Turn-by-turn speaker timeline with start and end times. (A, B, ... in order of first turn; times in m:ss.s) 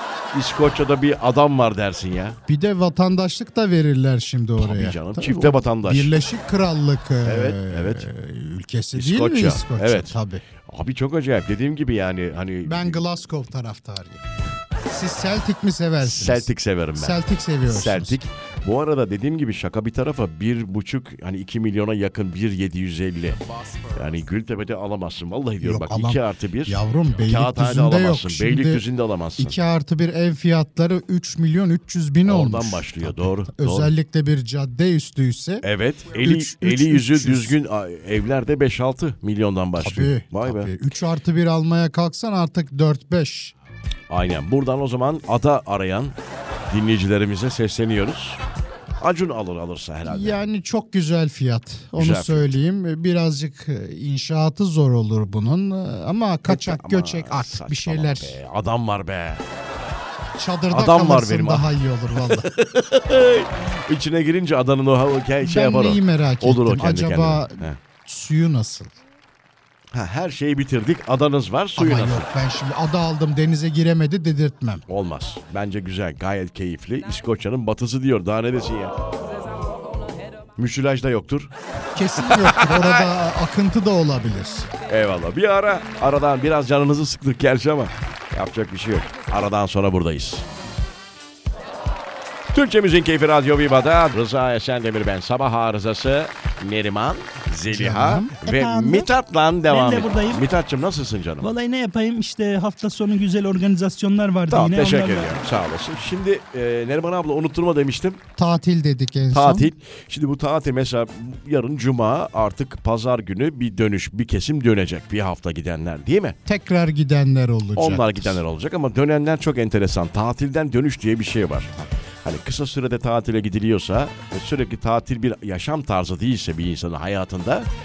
0:00.3-0:02.4 A
0:02.5-0:10.4 B
0:04.6-0:06.2 A
0:07.2-0:08.1 A
0:09.0-0:13.0 A
0:12.6-0:14.2 B
0:14.9-0:18.2 B
0:16.0-0:23.4 A
0:23.9-0:29.6 A
0:25.6-0:28.8 B
0:29.4-0:35.6 B
0:32.2-0:33.9 A
0:35.6-0:40.7 A
0:36.2-0:37.6 B
0:39.8-0:43.5 B
0:44.1-0:46.2 A
0:46.7-0:48.4 A
0:49.0-0:50.4 A
0:50.1-0:58.4 B
0:52.0-0:52.6 A
0:56.5-0:59.4 A
1:00.4-1:02.5 B
1:00.7-1:07.8 A
1:05.4-1:08.9 B
1:09.9-1:12.3 A
1:11.8-1:14.8 B
1:14.9-1:19.0 A
1:20.6-1:21.5 A
1:22.0-1:24.7 B
1:22.2-1:23.1 A
1:24.9-1:30.4 A
1:32.5-1:41.5 A
1:37.7-1:39.1 B
1:39.7-1:40.5 C
1:41.4-1:45.4 C
1:44.5-1:48.2 A
1:48.4-1:49.7 B
1:49.3-1:56.4 A
1:56.5-1:58.4 B
1:57.8-2:07.7 A